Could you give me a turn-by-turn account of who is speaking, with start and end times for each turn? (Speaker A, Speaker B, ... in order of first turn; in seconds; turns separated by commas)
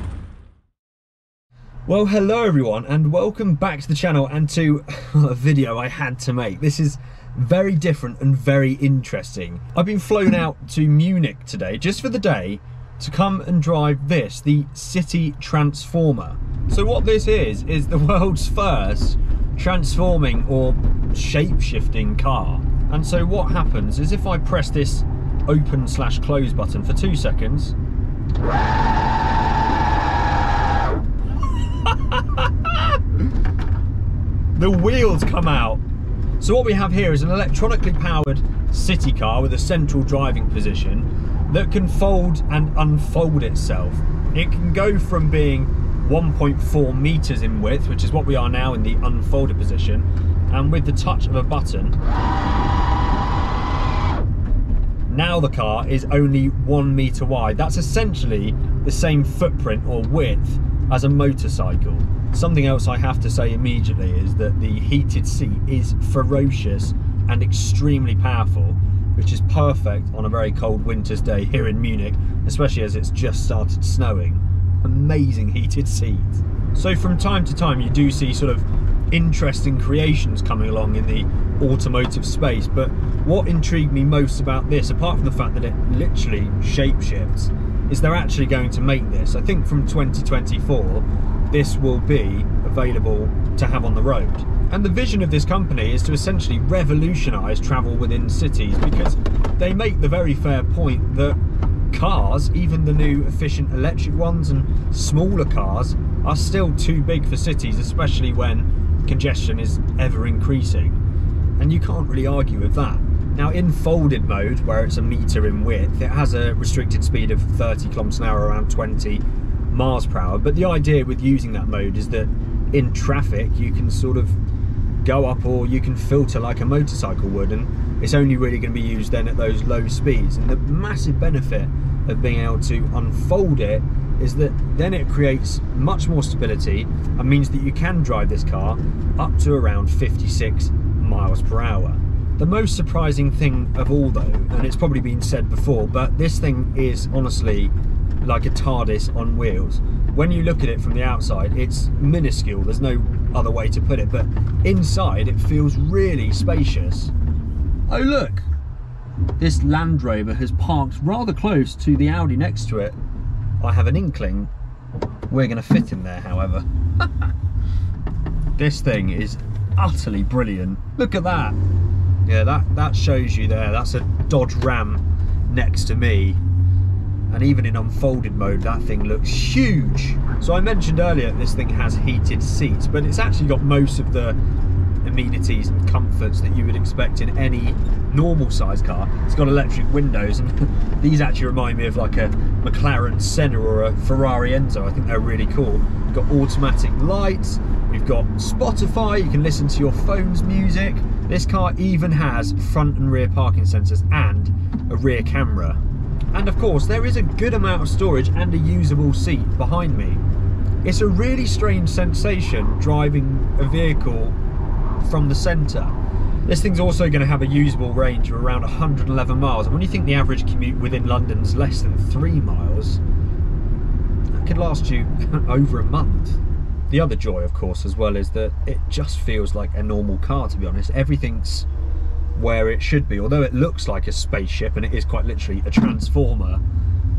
Speaker A: 1.9-27.8, Speaker A: 31.8-33.0, Speaker A: 34.5-35.8, Speaker A: 36.4-52.0, Speaker A: 55.1-101.4, Speaker A: 101.9-111.0, Speaker A: 111.6-124.4, Speaker A: 125.0-157.1, Speaker A: 157.9-158.5, Speaker A: 159.4-163.0, Speaker A: 163.6-164.5, Speaker A: 165.3-167.1, Speaker A: 168.6-171.6, Speaker A: 172.2-176.4, Speaker A: 177.3-184.4, Speaker A: 185.0-205.8, Speaker A: 206.3-210.2, Speaker A: 210.8-214.3, Speaker A: 215.0-215.9, Speaker A: 216.4-223.0, Speaker A: 224.3-231.7, Speaker A: 232.3-236.6